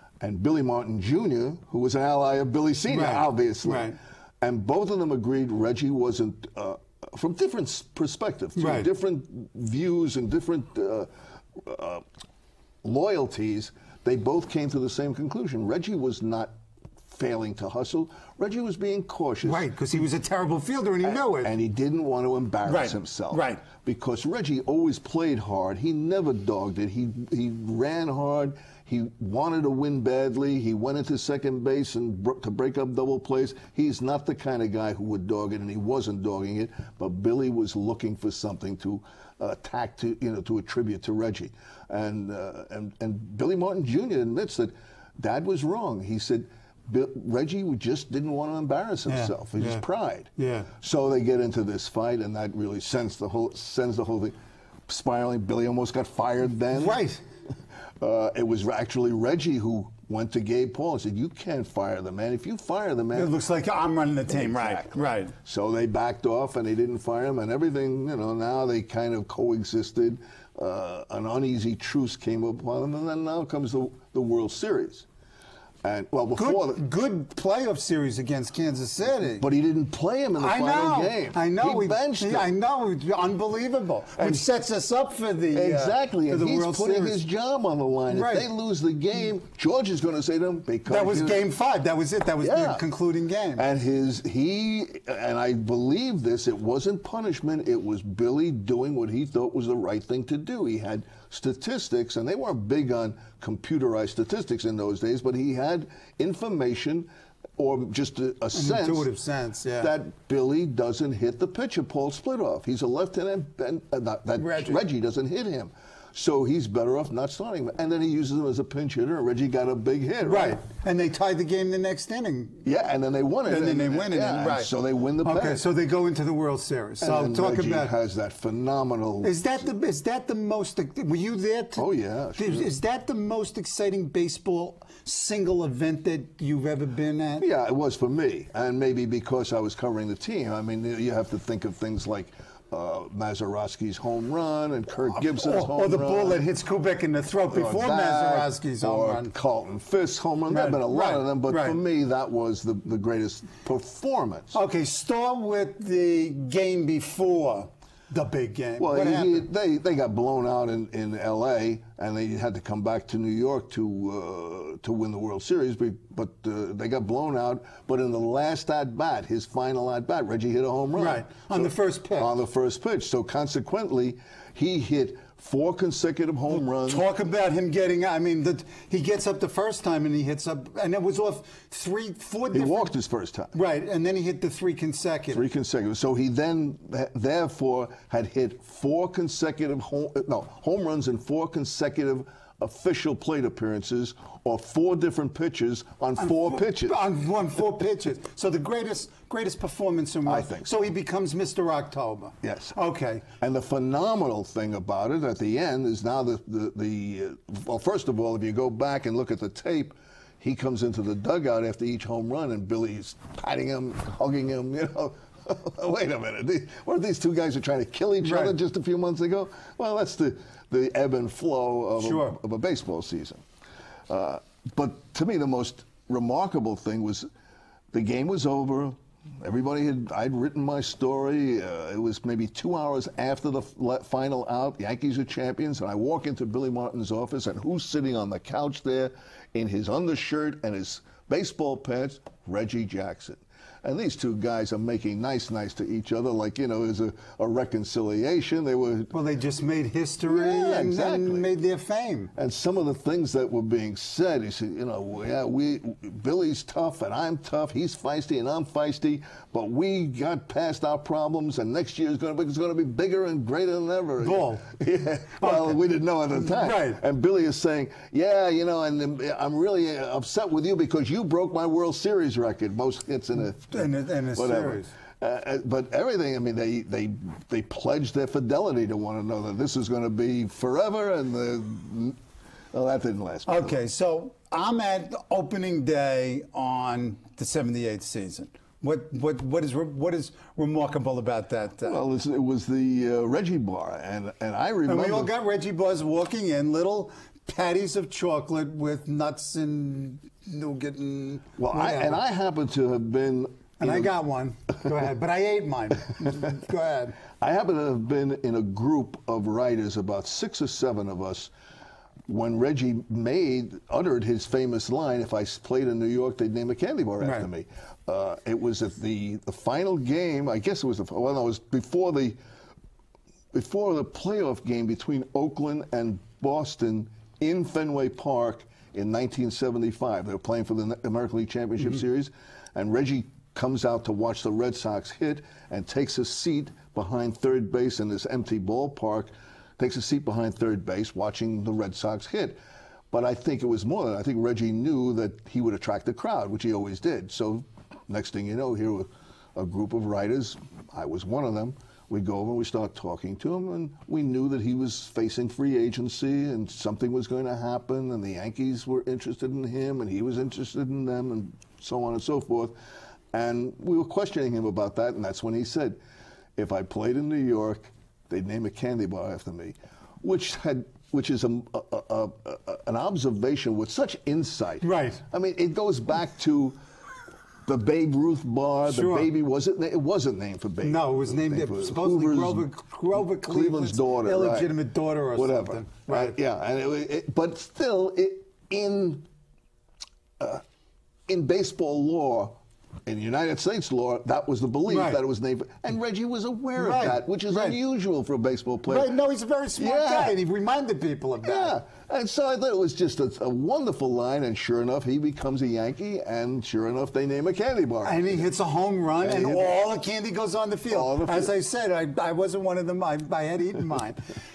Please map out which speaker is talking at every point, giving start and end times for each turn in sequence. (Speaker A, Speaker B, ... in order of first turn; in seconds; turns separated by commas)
Speaker A: 0.2-12.0, Speaker B: 2.9-4.0, Speaker B: 8.6-8.9, Speaker A: 12.8-16.5, Speaker A: 17.1-19.7, Speaker B: 19.4-21.5, Speaker A: 21.0-54.4, Speaker B: 22.6-23.6, Speaker B: 49.1-49.8, Speaker B: 50.4-50.7, Speaker A: 54.9-57.0, Speaker B: 56.7-57.2, Speaker A: 58.0-63.3, Speaker B: 63.1-65.3, Speaker A: 64.3-75.0, Speaker A: 75.8-76.8, Speaker B: 76.3-79.5, Speaker A: 79.4-82.5, Speaker B: 80.4-87.2, Speaker A: 84.2-84.5, Speaker A: 85.5-91.5, Speaker B: 88.1-88.5, Speaker B: 90.9-93.7, Speaker A: 92.4-92.8, Speaker A: 93.5-109.1, Speaker B: 108.5-109.9, Speaker A: 109.8-120.6, Speaker B: 114.4-114.8, Speaker B: 120.2-122.7, Speaker A: 122.6-125.6, Speaker B: 123.5-127.9, Speaker A: 127.0-129.3, Speaker B: 129.2-137.4, Speaker A: 131.8-132.7, Speaker A: 137.4-146.4, Speaker B: 145.2-149.3, Speaker A: 147.5-154.6, Speaker B: 150.5-151.8, Speaker B: 154.5-159.5, Speaker A: 158.8-177.1, Speaker B: 170.9-172.3, Speaker B: 176.5-182.9, Speaker A: 182.5-183.5, Speaker B: 183.5-185.4, Speaker A: 185.3-197.1, Speaker B: 196.2-203.2, Speaker A: 200.2-200.7, Speaker A: 202.4-202.8, Speaker A: 203.4-223.4, Speaker B: 218.2-218.5, Speaker B: 222.0-222.4, Speaker A: 224.1-227.3, Speaker A: 227.9-249.1, Speaker B: 249.1-252.3, Speaker A: 250.2-251.5, Speaker A: 252.3-282.2, Speaker B: 264.2-264.6, Speaker B: 265.4-265.8, Speaker B: 266.3-267.0, Speaker B: 273.7-274.9, Speaker A: 282.7-283.8, Speaker B: 283.4-292.0, Speaker A: 291.8-295.3, Speaker B: 294.9-302.2, Speaker A: 301.6-304.1, Speaker B: 303.8-307.2, Speaker A: 307.4-311.5, Speaker A: 312.3-322.4, Speaker B: 317.2-317.4, Speaker A: 323.5-342.6, Speaker A: 343.1-362.7, Speaker A: 363.3-366.0, Speaker A: 366.6-376.8, Speaker B: 374.8-375.2, Speaker A: 377.6-384.7, Speaker B: 378.9-379.3, Speaker B: 380.8-386.4, Speaker A: 385.4-389.3, Speaker A: 391.3-399.1, Speaker B: 394.9-395.2, Speaker B: 396.8-397.8, Speaker B: 398.9-401.8, Speaker A: 399.8-400.4, Speaker A: 401.4-408.5, Speaker B: 408.0-414.3, Speaker A: 409.2-409.7, Speaker A: 410.9-411.5